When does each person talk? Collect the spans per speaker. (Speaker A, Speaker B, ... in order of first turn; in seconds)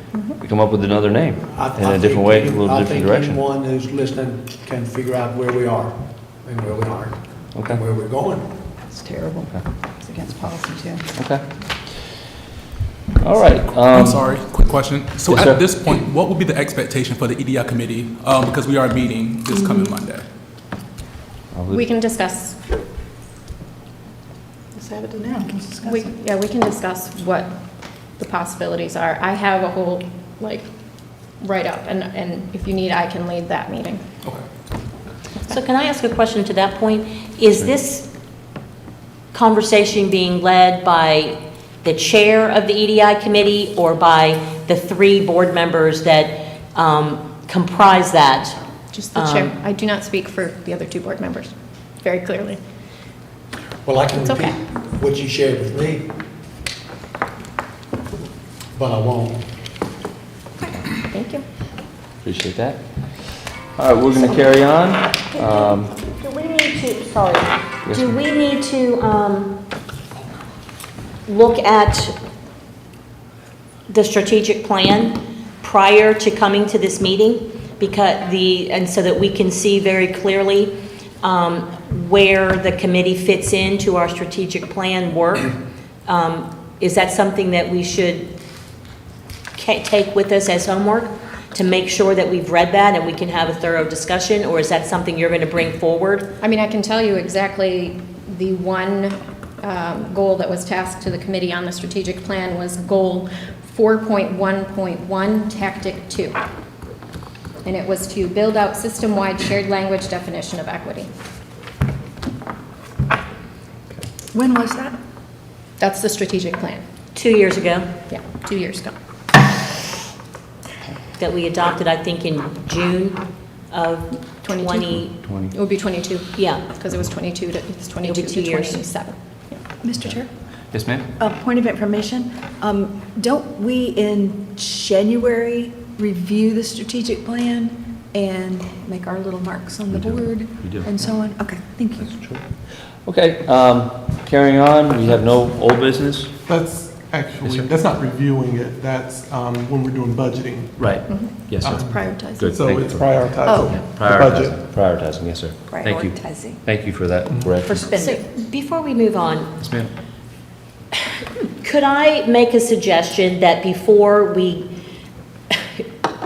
Speaker A: 0.3-3.4, 7.5-7.8, 11.2-11.4, 13.2-14.3, 15.3-15.7, 21.5-21.9, 62.2-62.8, 63.8-66.0, 67.9-68.2, 125.2-125.5, 130.7-131.1, 139.9-141.1, 142.0-142.4, 143.1-146.3, 147.4-147.7, 150.8-157.8, 159.6-159.9
Speaker B: 1.5-8.5, 53.9-56.1, 58.8-59.4
Speaker C: 8.9-11.1, 24.7-26.1
Speaker D: 13.9-20.3
Speaker E: 21.7-22.6, 25.8-27.5, 28.2-30.7, 31.4-34.0, 48.9-52.6, 54.1-54.5, 61.1-61.4, 96.4-106.4, 107.7-111.1, 115.8-116.8, 118.1-118.9, 124.4-129.6, 151.1-152.5, 153.5-153.8
Speaker F: 35.5-38.1, 39.3-48.6, 49.1-49.5, 66.2-69.6, 71.3-72.1, 73.9-85.5, 86.1-88.3, 89.5-96.3, 117.2-117.9, 121.2-123.2, 123.7-125.1, 126.4-126.6, 128.0-128.8, 157.7-159.5, 161.2-164.7, 165.5-165.8
Speaker G: 114.3-115.0, 129.8-130.3, 131.2-142.2, 155.7-156.6, 157.5-158.3
Speaker H: 146.5-150.8, 151.6-151.9, 152.5-154.6